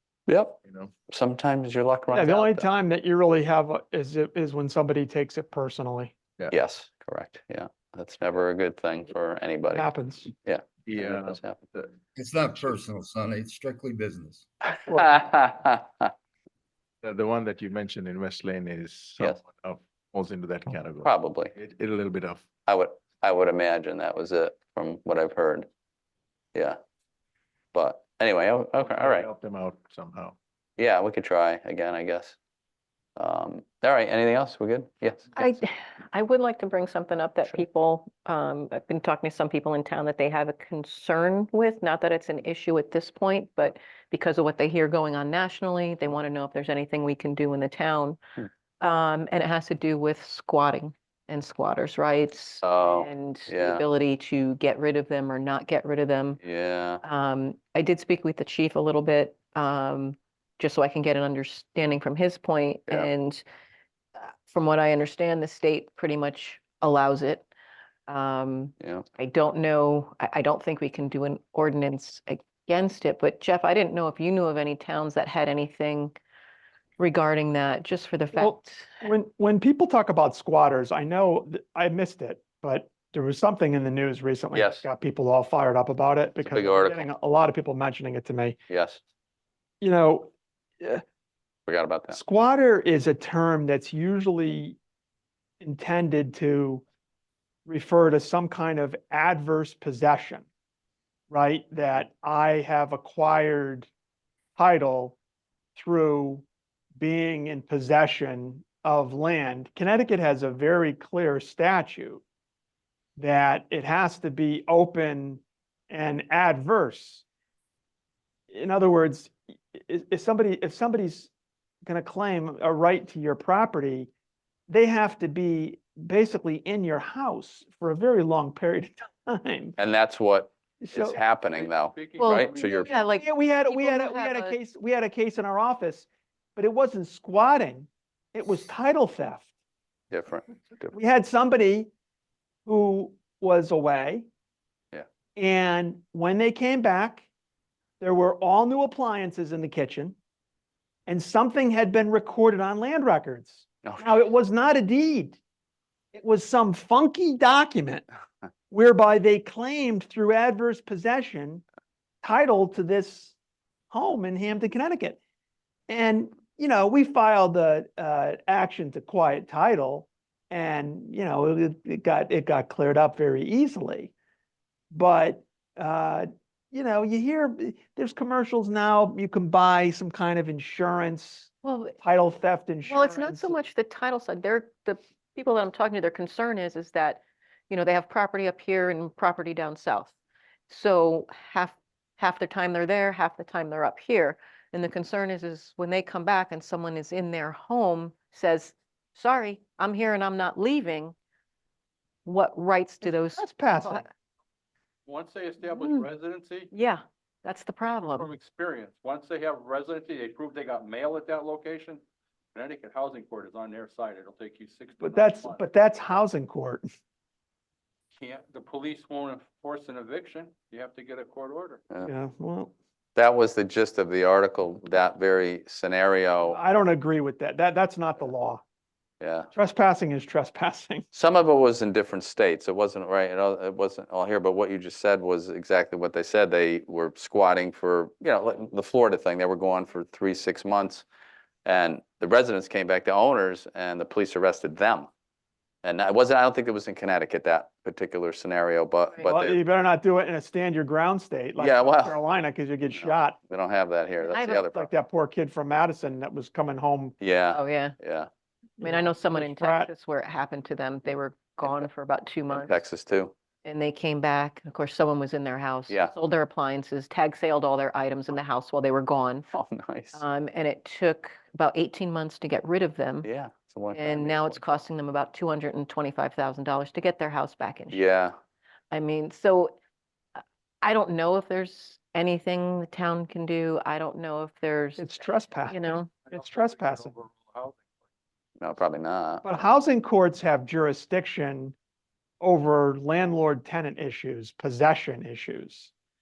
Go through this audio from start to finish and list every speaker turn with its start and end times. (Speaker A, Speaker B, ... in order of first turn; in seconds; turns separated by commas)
Speaker A: 0.3-2.7, Speaker B: 0.6-0.9, Speaker C: 2.1-6.2, Speaker A: 6.5-9.9, Speaker C: 9.7-10.3, Speaker A: 10.4-11.6, Speaker B: 10.9-11.9, Speaker D: 12.2-14.4, Speaker A: 14.9-16.1, Speaker B: 17.0-22.5, Speaker A: 21.0-21.5, Speaker A: 22.7-25.7, Speaker A: 27.7-29.3, Speaker B: 28.8-30.4, Speaker A: 30.8-32.4, Speaker A: 33.2-35.5, Speaker E: 35.4-48.2, Speaker E: 48.8-56.4, Speaker A: 52.6-53.9, Speaker A: 56.4-57.0, Speaker E: 57.0-63.4, Speaker E: 64.2-67.5, Speaker E: 68.1-76.2, Speaker E: 77.0-79.0, Speaker C: 78.3-88.6, Speaker A: 84.5-84.9, Speaker A: 86.4-87.1, Speaker A: 88.7-89.0, Speaker C: 89.8-91.0, Speaker A: 91.7-92.2, Speaker C: 92.1-94.8, Speaker C: 95.6-96.8, Speaker C: 97.7-100.5, Speaker C: 101.3-103.9, Speaker C: 104.6-105.2, Speaker C: 105.8-106.5, Speaker C: 107.0-112.2, Speaker C: 113.2-117.2, Speaker C: 118.5-121.3, Speaker C: 121.9-124.1, Speaker C: 124.7-129.8, Speaker A: 129.8-133.0, Speaker C: 130.8-131.2, Speaker F: 131.5-132.9, Speaker E: 132.2-134.6, Speaker C: 133.2-139.5, Speaker A: 140.1-140.9, Speaker C: 140.9-141.9, Speaker C: 142.7-144.3, Speaker C: 145.4-147.3, Speaker C: 148.0-150.2, Speaker C: 151.1-155.4, Speaker A: 153.8-154.2, Speaker C: 156.1-158.1, Speaker C: 158.7-161.6, Speaker C: 162.2-163.3, Speaker C: 163.9-165.2, Speaker C: 165.9-174.1, Speaker C: 174.9-183.6, Speaker E: 181.6-182.0, Speaker E: 182.8-190.2, Speaker E: 190.7-201.2, Speaker E: 202.2-204.1, Speaker C: 203.0-204.1, Speaker F: 205.1-206.7, Speaker E: 205.7-206.1, Speaker E: 206.7-208.3, Speaker F: 208.2-212.0, Speaker F: 212.5-215.6, Speaker C: 215.0-216.9, Speaker F: 218.2-221.8, Speaker C: 222.1-222.7, Speaker A: 223.2-226.6, Speaker C: 226.4-228.6, Speaker A: 229.2-229.5, Speaker C: 229.5-231.1, Speaker A: 231.1-241.1, Speaker A: 241.7-245.1, Speaker A: 245.8-249.6, Speaker C: 249.3-253.4, Speaker A: 251.6-252.2, Speaker A: 252.9-254.9, Speaker E: 254.2-254.6, Speaker C: 254.5-257.2, Speaker A: 257.2-258.3, Speaker E: 257.5-258.0, Speaker C: 258.8-259.9, Speaker E: 258.8-262.8, Speaker A: 262.5-263.3, Speaker E: 263.6-269.5, Speaker A: 269.5-270.2, Speaker E: 270.1-273.3, Speaker A: 273.2-274.8, Speaker E: 273.9-278.0, Speaker A: 277.9-278.4, Speaker E: 278.9-279.8, Speaker E: 280.8-286.1, Speaker C: 285.0-285.8, Speaker F: 286.3-287.9, Speaker C: 286.3-287.1, Speaker A: 288.6-289.5, Speaker C: 289.4-291.8, Speaker C: 292.4-295.9